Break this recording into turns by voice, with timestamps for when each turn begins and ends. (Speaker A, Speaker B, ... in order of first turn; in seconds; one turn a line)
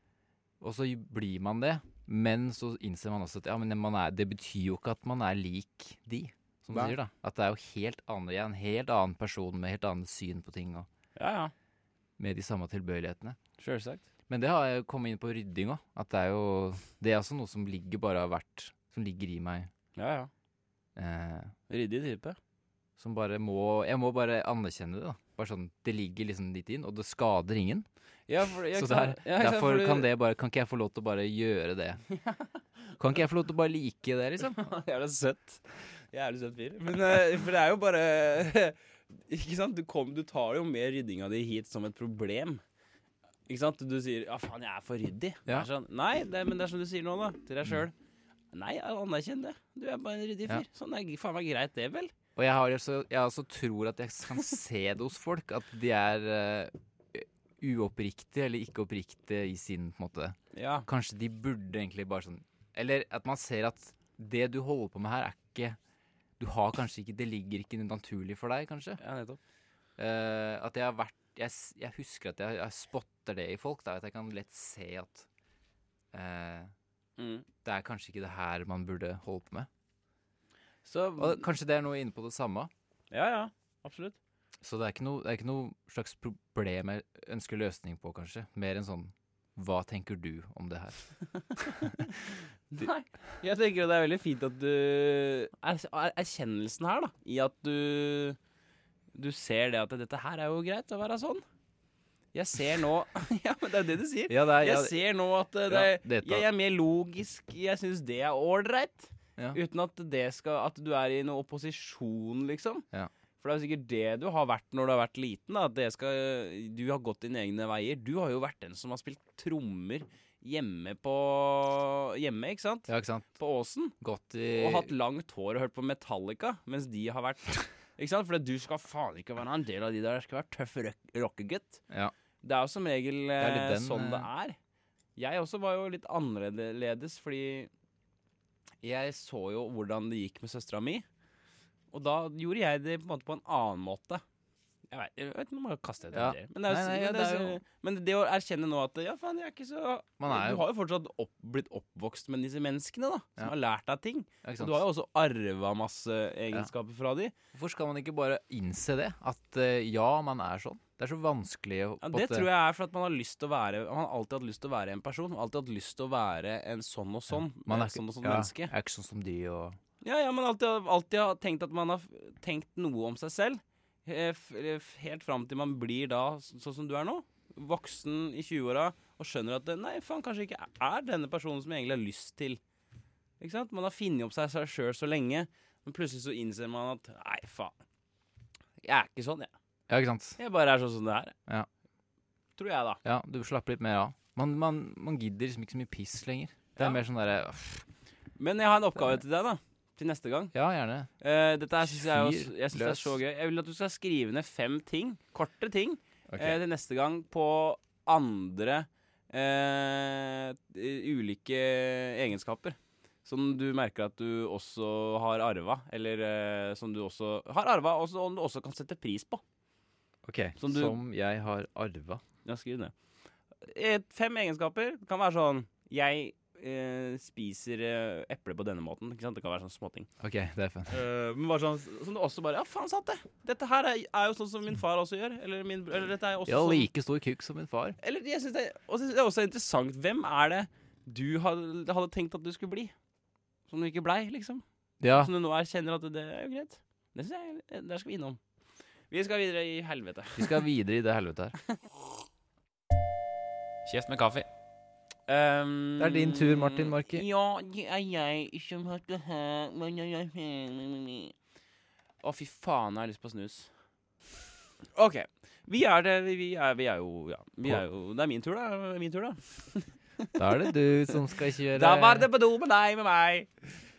Speaker A: 0.6-10.9
Speaker B: 11.2-11.5
Speaker A: 12.2-13.4
Speaker B: 13.6-14.0
Speaker A: 14.3-19.7
Speaker B: 19.9-20.3
Speaker A: 20.9-21.5
Speaker B: 21.7-22.4
Speaker A: 23.0-27.9
Speaker B: 28.3-30.1
Speaker A: 28.7-32.0
Speaker B: 32.1-32.6
Speaker A: 33.0-34.6
Speaker B: 34.4-42.6
Speaker B: 43.5-47.9
Speaker B: 48.5-52.1
Speaker A: 52.4-65.8
Speaker B: 60.5-60.9
Speaker A: 66.4-69.0
Speaker B: 69.0-69.4
Speaker A: 70.0-75.3
Speaker A: 76.1-76.7
Speaker B: 77.2-77.5
Speaker A: 77.6-79.7
Speaker B: 80.8-81.5
Speaker A: 81.2-82.7
Speaker B: 83.1-84.2
Speaker A: 84.6-91.0
Speaker B: 91.3-98.4
Speaker A: 91.6-92.1
Speaker B: 99.1-101.4
Speaker B: 102.3-112.8
Speaker A: 104.3-105.0
Speaker A: 105.7-106.5
Speaker B: 113.4-123.9
Speaker A: 122.9-123.3
Speaker A: 124.0-124.9
Speaker B: 124.5-131.8
Speaker B: 132.4-134.6
Speaker A: 133.4-134.3
Speaker B: 135.2-137.7
Speaker B: 138.8-141.0
Speaker B: 141.9-144.2
Speaker B: 144.9-157.3
Speaker A: 146.1-147.6
Speaker A: 150.2-150.6
Speaker A: 154.4-154.8
Speaker A: 157.5-162.5
Speaker B: 162.0-168.7
Speaker A: 167.3-169.8
Speaker B: 170.0-182.6
Speaker B: 183.4-187.7
Speaker B: 188.8-189.5
Speaker A: 189.9-190.4
Speaker B: 190.4-191.3
Speaker B: 192.6-193.0
Speaker A: 193.0-197.8
Speaker B: 198.4-200.5
Speaker A: 200.5-201.1
Speaker B: 201.2-219.4
Speaker A: 201.8-203.2
Speaker A: 206.3-206.6
Speaker A: 220.2-222.2
Speaker B: 220.6-221.0
Speaker B: 222.4-222.9
Speaker B: 223.6-230.1
Speaker A: 230.2-230.9
Speaker B: 230.9-236.9
Speaker A: 236.5-238.0
Speaker B: 238.0-242.9
Speaker B: 243.7-248.4
Speaker A: 245.0-245.3
Speaker B: 249.1-250.6
Speaker A: 250.4-251.6
Speaker B: 253.8-254.5
Speaker B: 255.3-261.3
Speaker A: 256.0-257.2
Speaker B: 262.2-263.7
Speaker B: 264.9-270.7
Speaker A: 270.4-272.3
Speaker B: 271.7-273.5